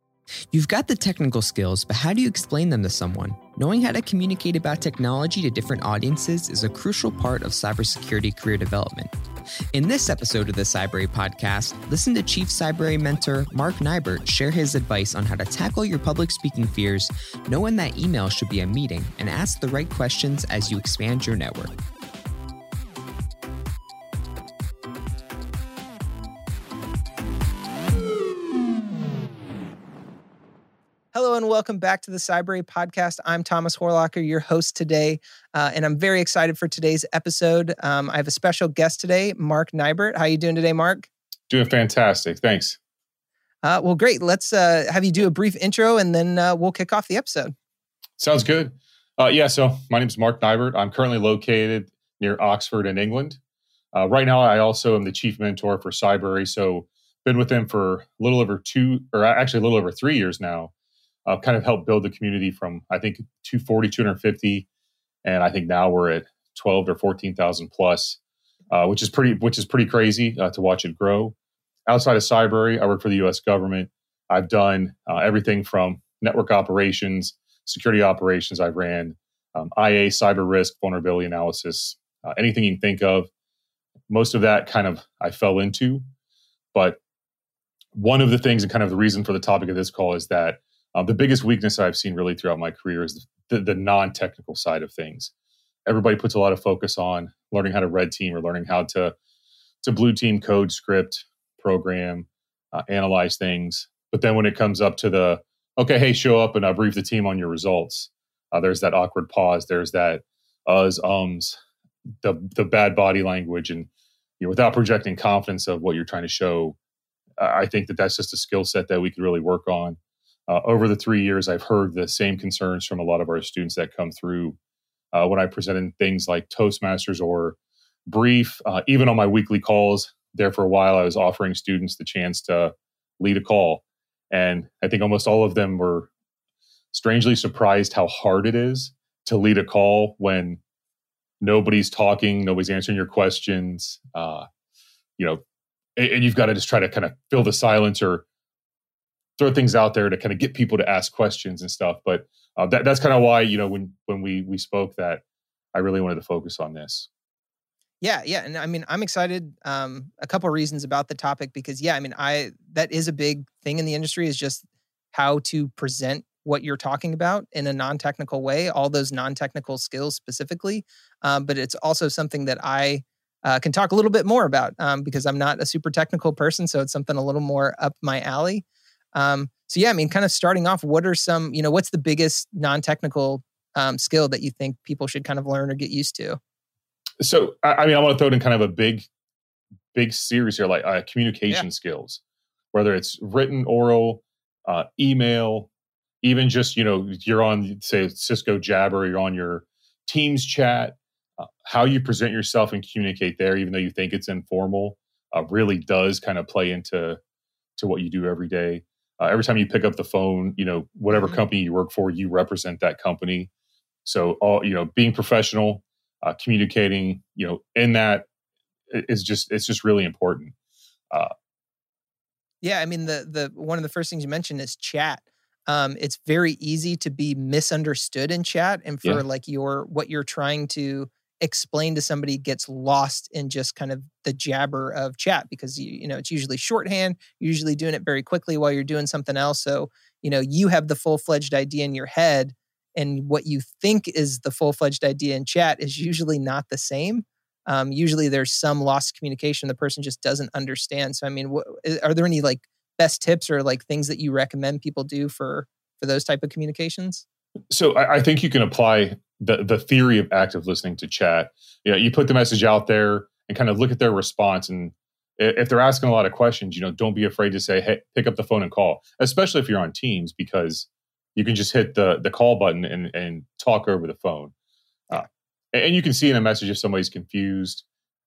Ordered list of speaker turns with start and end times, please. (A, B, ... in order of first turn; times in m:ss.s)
0:00.5-0:09.1 A
0:09.7-0:21.7 A
0:31.1-0:41.1 B
0:41.5-0:42.8 C
0:43.6-0:47.5 B
0:48.2-0:53.4 C
0:53.9-1:00.7 C
1:01.2-1:04.6 C
1:05.2-1:08.2 C
1:08.7-1:11.3 C
1:11.9-1:23.3 C
1:24.1-1:26.0 C
1:26.7-1:27.0 C
1:27.9-1:35.3 C
1:35.8-1:39.1 C
1:39.8-1:51.6 C
1:52.2-1:53.9 C
1:54.4-1:56.8 C
1:57.4-2:04.6 C
2:05.1-2:16.1 C
2:16.9-2:20.6 C
2:21.4-2:24.5 C
2:25.2-2:25.4 C
2:26.0-2:28.2 C
2:29.4-2:35.2 C
2:35.7-2:37.1 C
2:38.0-3:06.4 B
3:07.2-3:09.1 C
3:09.9-3:12.2 C
3:12.7-3:15.7 C
3:16.2-3:27.2 C
3:27.8-3:33.5 C
3:31.1-3:31.4 B
3:34.0-3:38.3 C
3:38.9-3:40.5 C
3:42.6-4:17.2 B
4:17.7-4:34.5 C
4:35.1-4:37.8 C